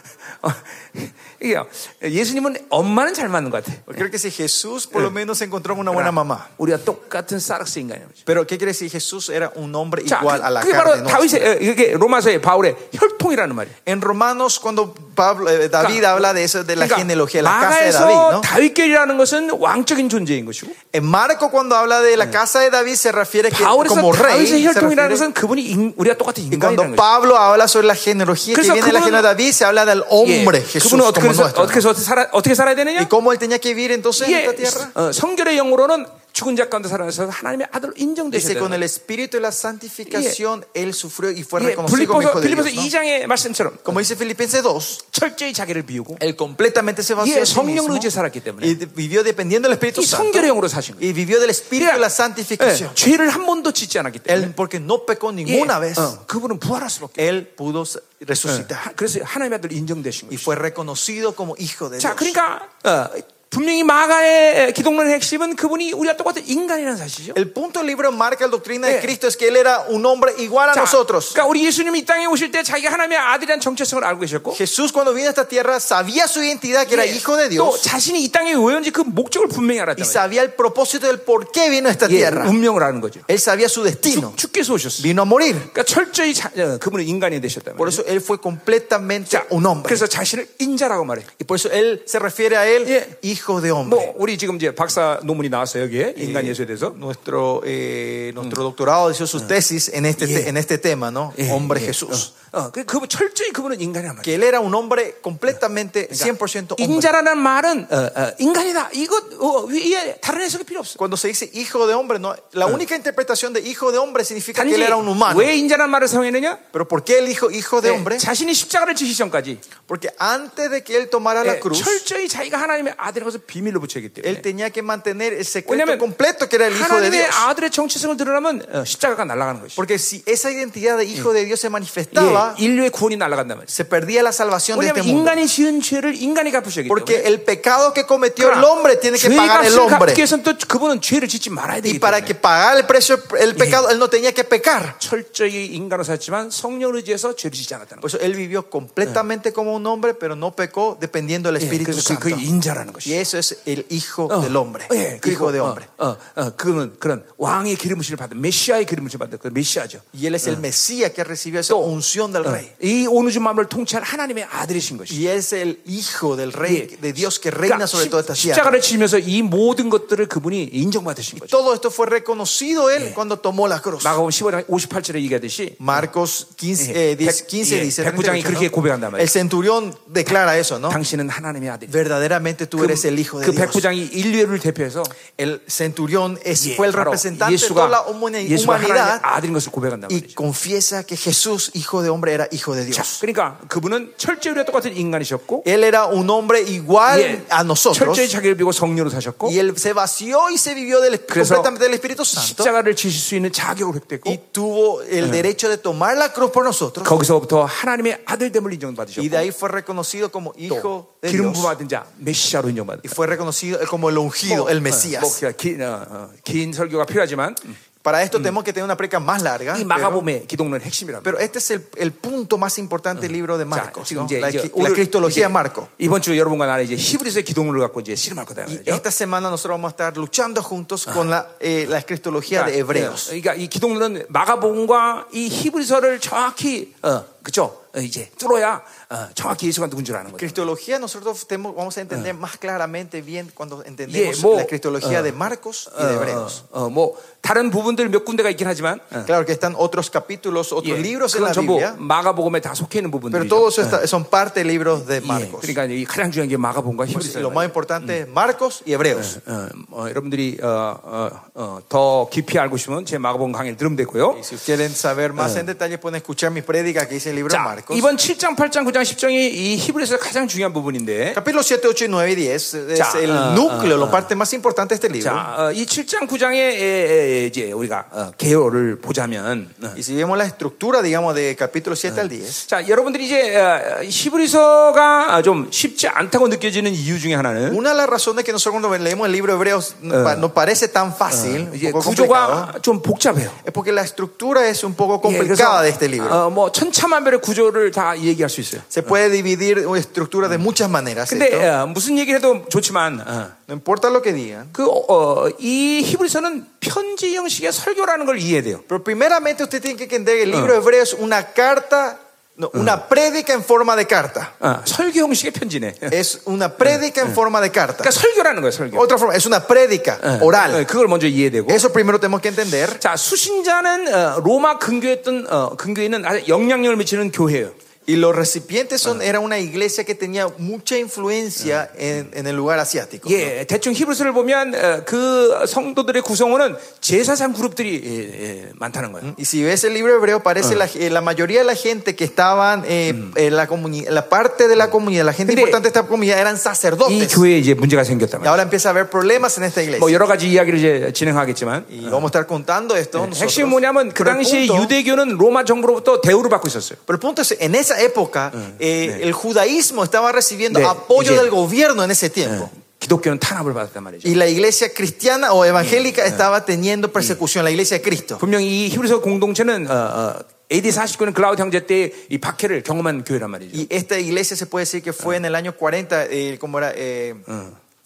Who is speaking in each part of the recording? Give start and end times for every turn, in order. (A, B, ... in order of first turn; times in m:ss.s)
0:00.4-0:04.0 A
0:03.9-0:06.5 B
0:05.9-0:08.2 A
0:08.2-0:11.5 B
0:10.0-0:13.8 A
0:13.8-0:18.5 B
0:15.8-0:20.8 A
0:20.9-0:25.2 B
0:23.5-0:27.0 A
0:26.5-0:31.8 B
0:28.5-0:29.3 A
0:30.2-0:33.1 A
0:33.0-0:34.9 B
0:34.2-0:38.8 A
0:38.3-0:42.9 B
0:40.1-0:40.4 A
0:41.6-0:44.0 A
0:43.8-0:45.0 B
0:45.1-0:46.2 A
0:46.2-0:53.0 B
0:47.2-0:48.8 A
0:49.9-0:51.1 A
0:51.8-0:52.0 A
0:52.6-0:54.5 A
0:54.3-0:56.1 B
0:55.4-0:57.2 A
0:57.2-0:58.9 B
0:58.5-1:00.6 A
1:00.3-1:02.4 B
1:02.0-1:07.4 A
1:07.3-1:11.4 B
1:08.8-1:09.1 A
1:10.7-1:14.6 A
1:14.5-1:17.8 B
1:16.9-1:20.2 A
1:20.0-1:22.6 B
1:22.0-1:23.3 A
1:23.3-1:24.4 B
1:24.0-1:25.1 A
1:25.0-1:25.7 B
1:25.7-1:28.0 A
1:27.8-1:30.0 B
1:29.3-1:31.3 A
1:31.4-1:34.1 B
1:32.8-1:33.1 A
1:33.8-1:37.0 A
1:36.2-1:42.3 B
1:40.2-1:40.5 A
1:41.4-1:44.3 A
1:44.2-1:47.1 B
1:46.1-1:51.0 A
1:51.0-1:55.5 B
1:54.5-1:56.6 A
1:56.7-1:58.2 B
1:57.8-1:59.6 A
1:59.8-2:02.0 B
2:01.4-2:04.4 A
2:04.2-2:07.5 B
2:05.6-2:06.0 A
2:06.7-2:09.8 A
2:09.8-2:12.6 B
2:12.1-2:13.7 A
2:13.7-2:15.4 B
2:14.7-2:17.2 A
2:16.9-2:20.2 B
2:18.4-2:22.3 A
2:21.8-2:25.0 B
2:23.6-2:23.8 A
2:25.0-2:28.1 A
2:28.0-2:32.4 B
2:31.6-2:33.2 A
2:33.0-2:35.8 B
2:34.3-2:40.6 A
2:40.1-2:42.7 B
2:42.4-2:45.2 A
2:45.1-2:48.8 B
2:46.6-2:46.9 A
2:47.6-2:51.5 A
2:51.4-2:54.2 B
2:54.0-2:56.0 A
2:55.8-3:01.0 B
2:56.8-2:59.3 A
3:00.9-3:02.0 A
3:01.9-3:03.8 B
3:02.8-3:05.1 A
3:05.3-3:09.2 B
3:06.6-3:10.4 A
3:10.1-3:13.2 B
3:12.9-3:15.6 A
3:15.6-3:18.3 B
3:17.1-3:19.6 A
3:19.4-3:22.7 B
3:21.3-3:21.7 A
3:22.3-3:24.4 A
3:24.2-3:27.2 B
3:27.0-3:29.5 A
3:29.2-3:31.7 B
3:30.7-3:33.2 A
3:33.0-3:35.4 B
3:34.5-3:37.8 A
3:38.0-3:40.2 B
3:39.7-3:41.4 A
3:41.2-3:45.9 B
3:43.7-3:49.0 A
3:48.7-3:53.3 B
3:52.5-4:00.6 A
4:00.3-4:06.6 B
4:04.1-4:05.3 A
4:05.9-4:09.3 A
4:09.2-4:12.0 B
4:10.8-4:14.0 A
4:13.3-4:15.8 B
4:15.2-4:18.1 A
4:17.1-4:19.4 B
4:19.2-4:24.4 A
4:24.3-4:28.1 B
4:27.5-4:31.4 A
4:31.3-4:35.5 B
4:32.9-4:34.3 A
4:35.2-4:40.0 A
4:39.9-4:42.6 B
4:42.5-4:47.8 A
4:47.7-4:52.7 B
4:50.1-4:50.4 A
4:51.3-4:53.6 A
4:53.6-4:56.4 B
4:55.2-4:58.9 A
4:58.9-5:01.7 B
5:01.3-5:03.6 A
5:03.7-5:04.7 B
5:04.7-5:08.8 A
5:08.9-5:14.5 B
5:14.6-5:16.2 A
5:16.1-5:18.1 B
5:18.0-5:19.1 A
5:18.9-5:20.8 B
5:20.2-5:21.8 A
5:21.7-5:23.0 B
5:23.0-5:27.7 A
5:28.1-5:33.5 B
5:33.2-5:39.3 A
5:39.2-5:47.4 B
5:45.5-5:45.8 A
5:47.0-5:48.6 A
5:48.4-5:50.2 B
5:50.0-5:52.2 A
5:51.9-5:54.9 B
5:53.1-5:57.0 A
5:57.1-6:02.7 B
5:58.6-5:59.2 A
6:00.7-6:01.5 A
6:02.5-6:04.4 A
6:04.2-6:08.4 B
6:08.4-6:13.9 A
6:13.7-6:17.4 B
6:17.5-6:17.8 A